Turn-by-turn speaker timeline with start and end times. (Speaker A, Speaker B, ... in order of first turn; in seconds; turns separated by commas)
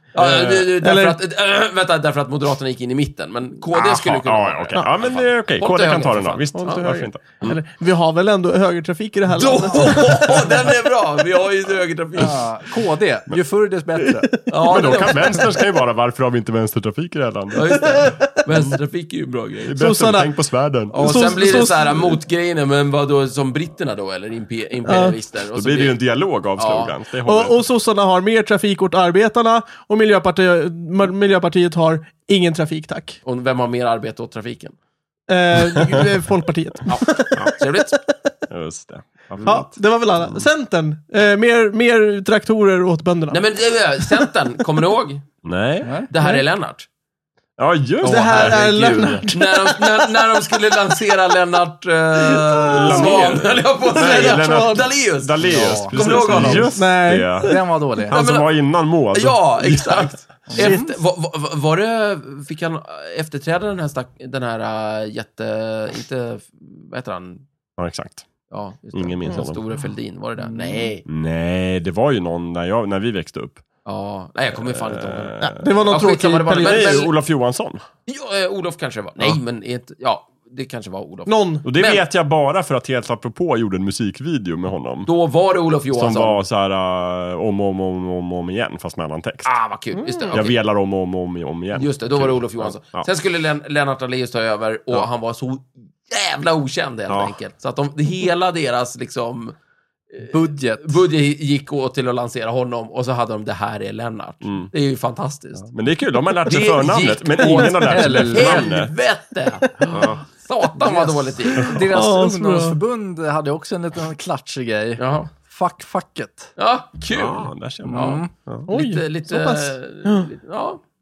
Speaker A: 0.1-6.8, Speaker B: 0.2-0.6, Speaker C: 0.8-1.2, Speaker B: 3.7-7.6, Speaker C: 6.5-10.6, Speaker A: 9.3-12.5, Speaker D: 12.1-14.4, Speaker C: 14.1-15.1, Speaker A: 14.5-15.4, Speaker B: 14.6-17.9, Speaker A: 17.5-19.8, Speaker C: 17.7-18.3, Speaker B: 19.6-21.6, Speaker C: 19.8-20.3, Speaker A: 20.9-26.0, Speaker C: 20.9-22.2, Speaker C: 24.9-25.2, Speaker B: 25.5-27.6, Speaker A: 26.6-26.9, Speaker C: 27.2-33.2, Speaker A: 33.2-34.8, Speaker C: 35.3-38.1, Speaker A: 36.9-38.0, Speaker B: 38.5-40.5, Speaker C: 39.4-43.5, Speaker A: 43.3-45.3, Speaker C: 44.0-44.3, Speaker B: 45.4-46.0, Speaker D: 45.8-46.1, Speaker A: 46.1-46.9, Speaker B: 47.6-49.3, Speaker A: 48.0-48.6, Speaker C: 48.0-50.2, Speaker D: 48.8-49.0, Speaker A: 49.3-56.8, Speaker C: 52.3-54.9, Speaker B: 52.7-60.2, Speaker D: 55.4-56.8, Speaker C: 56.4-57.6, Speaker D: 57.4-58.1, Speaker A: 58.1-58.5, Speaker A: 59.1-67.5, Speaker D: 60.5-61.0, Speaker C: 60.5-60.9, Speaker B: 67.8-68.3, Speaker A: 68.5-71.0, Speaker B: 68.9-69.6, Speaker D: 70.4-70.8, Speaker B: 71.1-73.6, Speaker A: 73.8-77.1, Speaker B: 74.6-76.0, Speaker C: 75.4-77.1, Speaker B: 76.6-77.8, Speaker A: 78.1-82.0, Speaker C: 81.3-81.7, Speaker B: 81.6-85.1, Speaker A: 85.1-86.4, Speaker B: 85.9-89.5, Speaker A: 89.5-90.6, Speaker C: 90.0-90.4, Speaker B: 90.3-93.1, Speaker A: 91.7-99.6, Speaker B: 97.1-97.3, Speaker A: 100.1-105.7, Speaker D: 100.3-101.0, Speaker B: 104.4-104.7, Speaker B: 105.7-108.9, Speaker A: 106.4-111.8, Speaker D: 107.4-108.7, Speaker B: 109.9-110.2, Speaker D: 110.8-116.5, Speaker C: 111.7-112.8, Speaker A: 115.0-115.3, Speaker A: 116.6-120.8, Speaker B: 117.1-118.7, Speaker D: 117.8-118.3, Speaker C: 118.7-120.3